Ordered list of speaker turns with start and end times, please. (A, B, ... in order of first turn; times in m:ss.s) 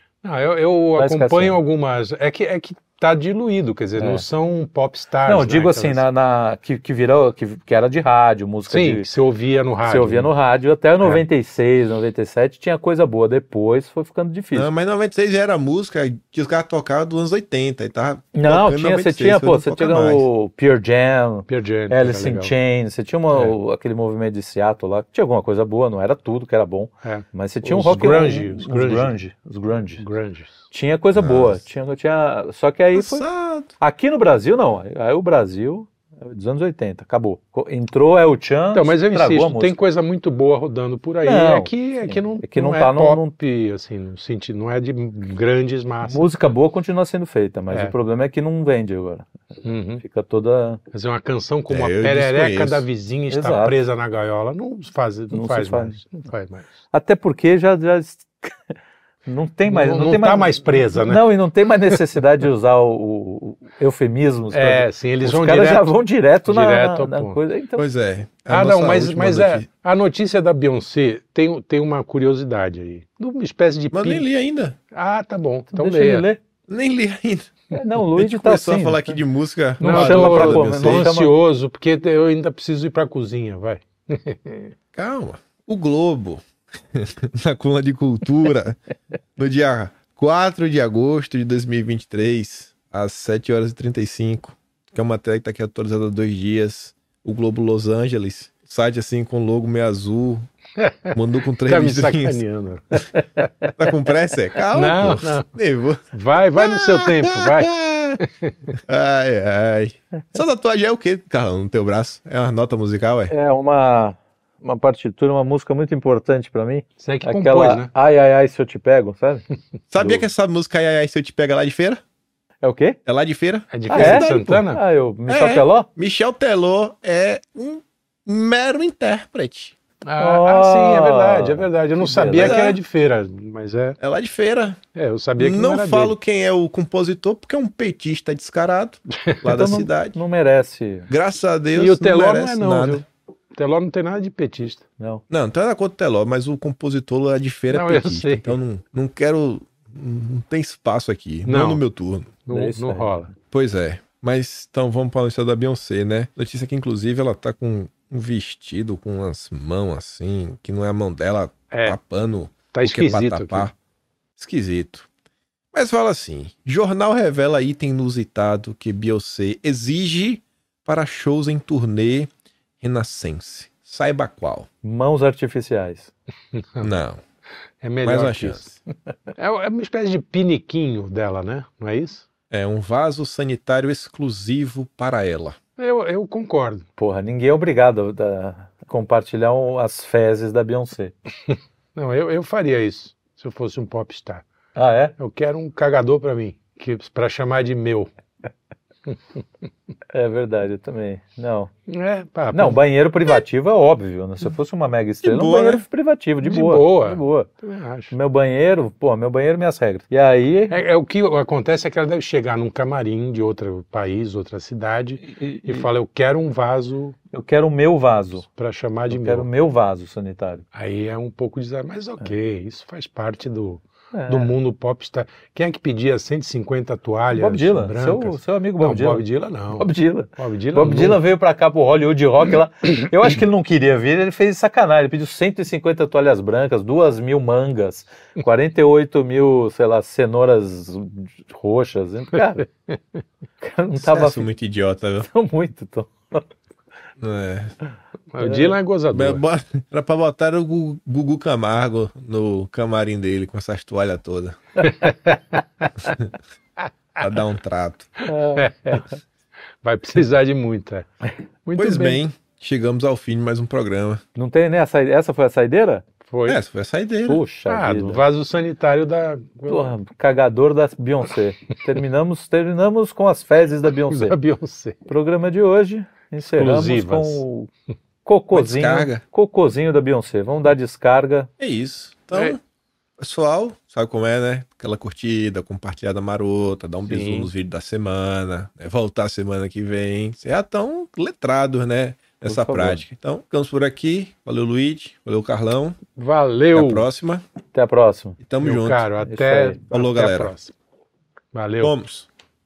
0:00.2-0:06.0 A
0:01.0-0:01.6 B
0:04.0-0:04.2 B
0:05.3-0:09.1 B
0:08.7-0:10.3 A
0:09.8-0:14.7 B
0:14.5-0:20.3 C
0:18.4-0:30.1 B
0:21.5-0:22.5 A
0:27.0-0:29.1 A
0:30.0-0:30.6 A
0:30.7-0:33.2 B
0:31.1-0:31.6 C
0:32.9-0:33.7 C
0:33.8-0:39.8 B
0:38.7-0:46.3 A
0:41.2-0:43.3 B
0:46.0-0:50.8 B
0:49.6-0:50.0 A
0:50.9-0:56.7 A
0:51.7-0:52.8 C
0:53.3-0:53.8 B
0:55.3-0:56.0 B
0:56.9-1:07.8 B
0:59.7-1:01.3 A
1:04.5-1:05.9 A
1:06.4-1:07.4 A
1:07.8-1:09.7 C
1:08.5-1:14.2 A
1:13.9-1:14.8 C
1:14.9-1:16.3 A
1:15.7-1:16.4 B
1:16.7-1:17.6 C
1:17.7-1:19.2 B
1:18.1-1:21.1 C
1:19.8-1:21.4 B
1:19.8-1:24.7 A
1:24.9-1:28.8 C
1:29.4-1:40.5 C
1:40.8-1:43.7 A
1:41.1-1:42.4 C
1:43.8-1:46.0 C
1:44.7-1:45.5 A
1:46.1-1:48.8 A
1:46.6-1:48.2 C
1:48.9-1:53.3 C
1:53.3-1:59.4 B
1:57.0-1:57.9 A
1:59.9-2:02.0 C
2:02.6-2:03.0 B
2:03.1-2:04.6 C
2:03.7-2:04.8 A
2:03.9-2:05.9 B
2:05.3-2:09.8 C
2:10.0-2:14.0 A
2:10.2-2:12.6 B
2:12.3-2:12.8 C
2:14.0-2:14.8 C
2:15.0-2:16.2 A
2:15.4-2:20.2 C
2:19.4-2:21.1 B
2:21.1-2:23.0 C
2:21.7-2:24.9 A
2:25.0-2:25.2 B
2:25.3-2:32.3 C
2:27.7-2:28.6 A
2:31.5-2:31.8 A
2:32.5-2:33.3 A
2:32.5-2:33.3 B
2:33.5-2:43.7 C
2:41.7-2:42.0 A
2:42.7-2:43.7 A
2:44.4-2:45.1 C
2:45.7-2:52.3 C
2:52.8-2:54.7 C
2:54.8-2:56.1 B
2:56.5-2:56.9 A
2:56.8-2:57.2 C
2:57.8-2:58.7 A
2:58.0-2:58.8 C
2:59.4-3:02.2 A
3:02.5-3:05.6 C
3:05.8-3:06.9 A
3:07.0-3:11.1 B
3:11.5-3:14.5 A
3:14.8-3:15.2 B
3:15.2-3:18.1 A
3:20.1-3:21.7 B
3:21.9-3:22.8 A
3:22.5-3:27.5 B
3:25.2-3:25.8 C
3:26.4-3:28.1 A
3:28.1-3:30.8 B
3:30.7-3:37.2 A
3:35.3-3:35.9 B
3:37.3-3:38.4 B
3:38.4-3:39.5 A
3:39.1-3:40.6 B
3:40.7-3:51.2 A
3:44.1-3:44.5 B
3:47.4-4:02.7 B
4:03.6-4:04.5 B
4:04.0-4:05.3 C
4:05.2-4:06.4 B
4:07.2-4:07.8 C
4:08.3-4:09.4 A
4:08.4-4:08.7 B
4:09.1-4:14.9 C
4:14.9-4:15.4 A
4:16.0-4:16.3 C
4:17.2-4:18.1 C
4:18.3-4:19.0 B
4:18.5-4:19.1 A
4:19.8-4:21.1 A
4:21.6-4:22.2 A
4:21.8-4:24.2 C
4:24.4-4:26.1 B
4:26.2-4:26.6 A
4:26.5-4:27.4 C
4:27.3-4:28.2 B
4:27.7-4:29.9 A
4:29.7-4:34.4 B
4:34.1-4:35.1 A
4:35.1-4:37.7 B
4:36.4-4:37.4 A
4:38.2-4:41.5 B
4:38.5-4:39.2 C
4:41.6-4:42.6 C
4:43.2-4:56.0 C
4:47.1-4:47.5 A
4:52.5-4:53.0 B
4:56.2-4:57.1 A
4:56.7-4:57.4 C
4:57.7-4:58.4 B
4:58.4-4:59.1 C
4:58.6-5:00.7 A
4:59.2-4:59.8 B
4:59.9-5:00.5 C
5:01.5-5:02.0 A
5:01.8-5:02.3 C